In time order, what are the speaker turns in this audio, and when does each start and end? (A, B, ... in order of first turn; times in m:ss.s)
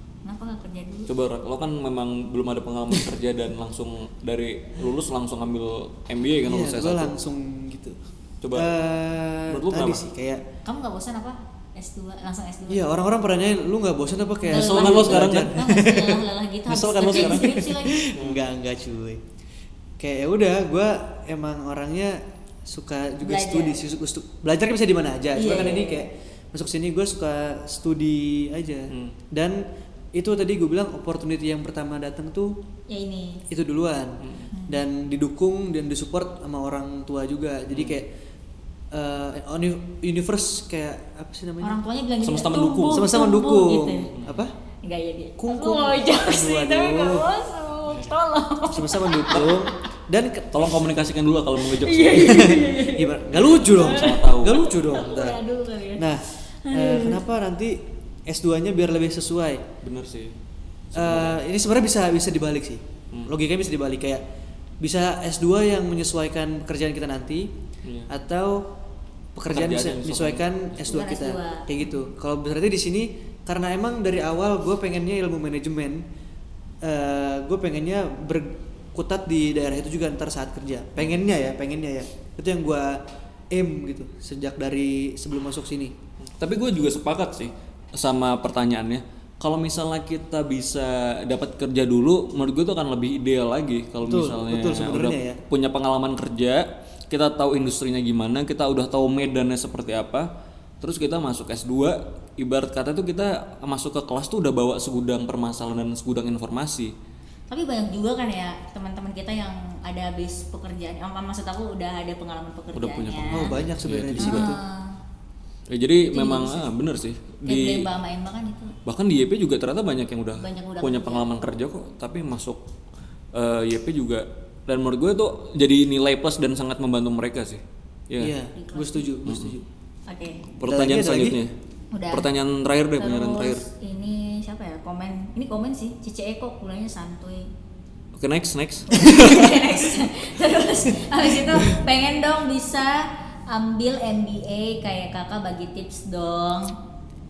0:00.2-0:01.1 A
0:01.1-0:07.2 B
0:06.4-0:08.0 C
0:08.4-0:08.7 B
0:08.5-0:10.4 C
0:09.5-0:10.0 B
0:10.6-0:12.9 A
0:12.7-0:16.2 C
0:14.5-0:18.1 A
0:14.5-0:15.6 B
0:16.7-0:18.4 B
0:17.1-0:19.2 C
0:20.0-0:32.6 C
0:23.2-0:23.8 A
0:25.4-0:26.0 A
0:28.9-0:29.2 B
0:32.9-0:33.4 A
0:33.5-0:38.1 C
0:34.2-0:34.5 B
0:34.5-0:34.8 A
0:37.7-0:38.0 B
0:38.9-0:41.8 C
0:41.6-0:44.1 A
0:42.2-0:43.1 B
0:42.9-0:44.5 C
0:44.1-0:44.4 B
0:44.8-0:49.6 A
0:45.4-0:47.3 C
0:48.7-0:50.6 C
0:50.5-0:52.7 B
0:51.7-0:56.1 A
0:52.1-0:55.4 C
0:53.3-0:54.7 B
0:56.0-0:59.7 C
0:56.6-0:57.2 A
0:59.8-1:00.4 B
1:00.9-1:01.4 B
1:01.0-1:04.2 C
1:04.8-1:07.5 C
1:08.1-1:08.6 C
1:09.4-1:16.0 C
1:09.5-1:10.9 B
1:10.9-1:11.7 A
1:16.8-1:26.0 C
1:26.4-1:40.3 B
1:34.0-1:35.4 C
1:40.8-1:46.9 B
1:47.5-1:53.6 A
1:52.7-1:54.6 B
1:53.3-1:54.6 C
1:54.2-1:55.0 A
1:55.7-1:57.9 B
1:56.0-1:56.7 A
1:57.5-1:58.8 A
1:58.9-2:02.6 B
2:00.4-2:01.3 A
2:03.3-2:08.4 B
2:08.2-2:09.7 C
2:08.6-2:09.1 A
2:09.3-2:09.6 B
2:10.1-2:10.5 A
2:10.6-2:11.5 B
2:10.6-2:11.4 C
2:11.9-2:12.3 A
2:12.1-2:13.7 B
2:13.0-2:17.5 A
2:18.2-2:19.9 B
2:18.9-2:26.8 A